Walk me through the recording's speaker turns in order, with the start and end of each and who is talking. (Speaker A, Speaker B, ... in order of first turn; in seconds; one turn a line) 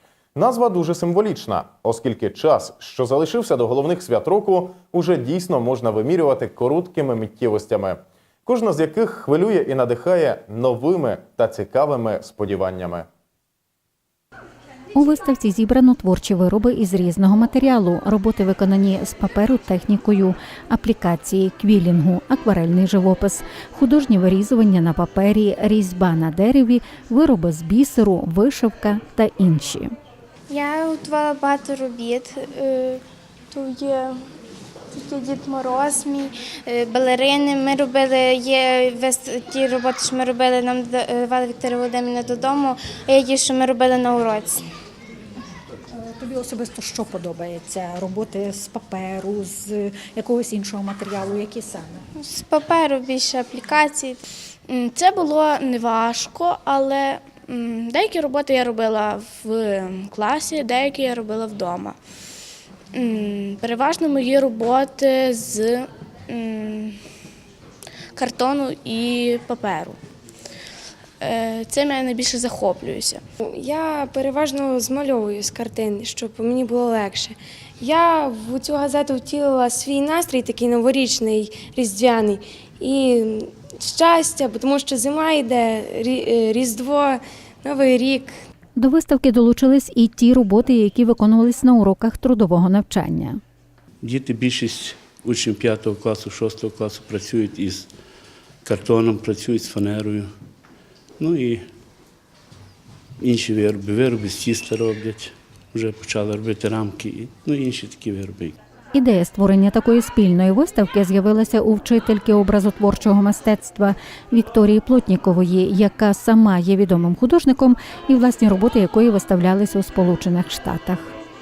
Speaker A: 0.3-13.1
Speaker B: 14.9-29.9
Speaker C: 30.5-34.2
Speaker C: 34.9-44.6
Speaker D: 46.0-52.1
Speaker C: 52.2-54.2
Speaker E: 54.7-62.0
Speaker E: 62.9-66.9
Speaker E: 68.2-70.0
Speaker E: 71.2-73.2
Speaker F: 73.5-88.3
Speaker B: 88.8-93.4
Speaker G: 94.0-97.9
Speaker G: 98.6-100.3
Speaker G: 101.2-101.6
Speaker G: 103.2-108.6
Speaker B: 108.9-121.1